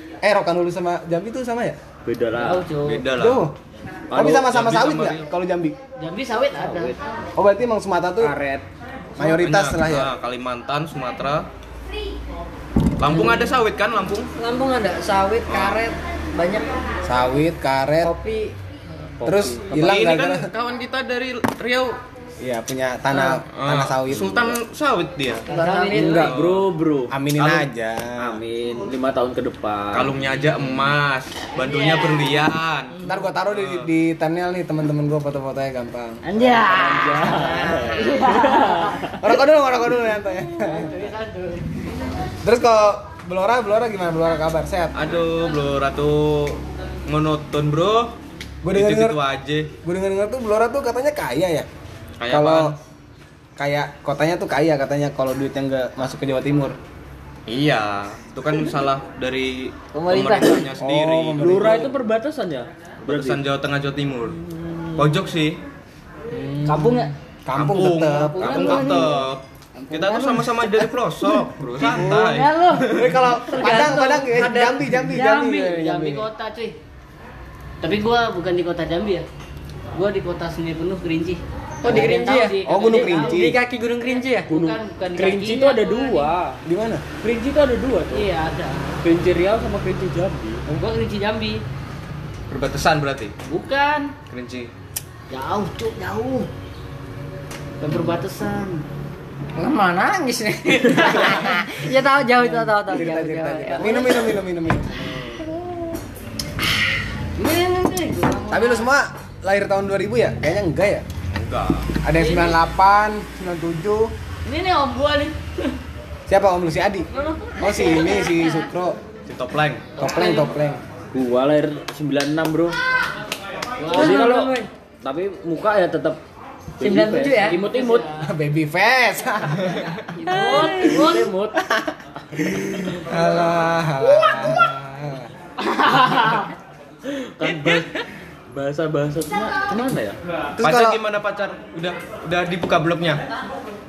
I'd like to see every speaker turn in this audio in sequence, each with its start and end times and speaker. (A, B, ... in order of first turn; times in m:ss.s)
0:00.2-0:01.8 A
0:02.0-0:02.7 B
0:02.4-0:03.1 C
0:02.8-0:03.5 D
0:03.2-0:03.5 A
0:04.1-0:04.5 B
0:04.1-0:05.8 A
0:04.3-0:05.2 D
0:06.0-0:07.0 C
0:06.6-0:07.0 B
0:07.4-0:08.3 A
0:08.2-0:08.6 B
0:09.2-0:10.1 A
0:09.2-0:11.5 D
0:13.0-0:14.3 D
0:14.4-0:16.7 E
0:15.5-0:15.9 D
0:17.0-0:18.1 A
0:18.0-0:18.5 E
0:19.2-0:19.9 B
0:19.2-0:20.5 A
0:19.7-0:22.0 D
0:22.4-0:24.6 A
0:23.5-0:25.5 D
0:25.5-0:26.4 C
0:25.5-0:26.1 E
0:26.0-0:26.3 A
0:26.0-0:27.1 B
0:26.1-0:26.7 D
0:27.1-0:28.4 A
0:27.4-0:27.7 D
0:28.2-0:30.1 B
0:29.9-0:33.0 D
0:31.6-0:32.4 C
0:33.0-0:36.2 A
0:33.5-0:33.9 D
0:36.2-0:39.2 C
0:36.5-0:39.1 B
0:39.1-0:40.9 A
0:40.6-0:41.7 C
0:42.4-0:45.0 A
0:45.0-0:48.1 D
0:48.6-0:49.2 A
0:48.7-0:49.7 D
0:49.8-0:51.7 A
0:52.2-0:52.8 D
0:52.3-0:52.8 A
0:53.6-0:56.8 A
0:57.5-1:01.9 D
1:00.0-1:00.6 C
1:00.8-1:01.9 A
1:01.4-1:03.4 B
1:03.1-1:04.4 D
1:05.0-1:05.6 D
1:06.3-1:09.1 A
1:06.7-1:07.1 C
1:07.6-1:13.1 D
1:08.3-1:09.3 C
1:09.8-1:12.9 C
1:12.9-1:16.3 A
1:13.5-1:15.1 E
1:13.6-1:14.0 C
1:15.1-1:16.8 C
1:17.8-1:19.3 C
1:19.9-1:23.6 C
1:21.8-1:22.6 E
1:21.8-1:23.6 A
1:23.4-1:24.5 E
1:24.5-1:26.3 C
1:24.6-1:26.6 B
1:26.7-1:27.0 A
1:27.2-1:28.3 B
1:28.1-1:28.9 C
1:29.0-1:30.6 B
1:30.7-1:31.6 C
1:32.5-1:33.3 D
1:33.5-1:34.1 C
1:34.3-1:34.7 D
1:35.3-1:36.5 C
1:37.8-1:38.9 C
1:39.6-1:43.9 E
1:41.0-1:41.3 C
1:42.4-1:45.1 A
1:43.8-1:44.4 C
1:47.4-1:48.9 C
1:48.5-1:51.0 A
1:51.3-1:52.0 D
1:52.0-1:54.1 A
1:52.2-1:52.6 C
1:54.4-1:55.7 C
1:56.3-1:57.1 A
1:57.2-1:57.5 C
1:57.6-1:59.0 A
1:59.3-1:59.9 D
2:00.0-2:00.5 C
2:00.0-2:00.8 A
2:01.1-2:02.8 B
2:03.8-2:04.2 C
2:03.9-2:06.2 B
2:04.0-2:04.7 E
2:06.8-2:08.1 B
2:06.9-2:07.6 E
2:07.5-2:08.3 C
2:08.2-2:09.9 A
2:10.2-2:11.3 C
2:10.3-2:11.2 E
2:10.7-2:11.6 B
2:11.6-2:15.3 A
2:14.2-2:14.5 C
2:15.6-2:16.5 C
2:17.1-2:18.0 B
2:18.5-2:20.2 B
2:20.6-2:21.0 A
2:20.6-2:23.2 D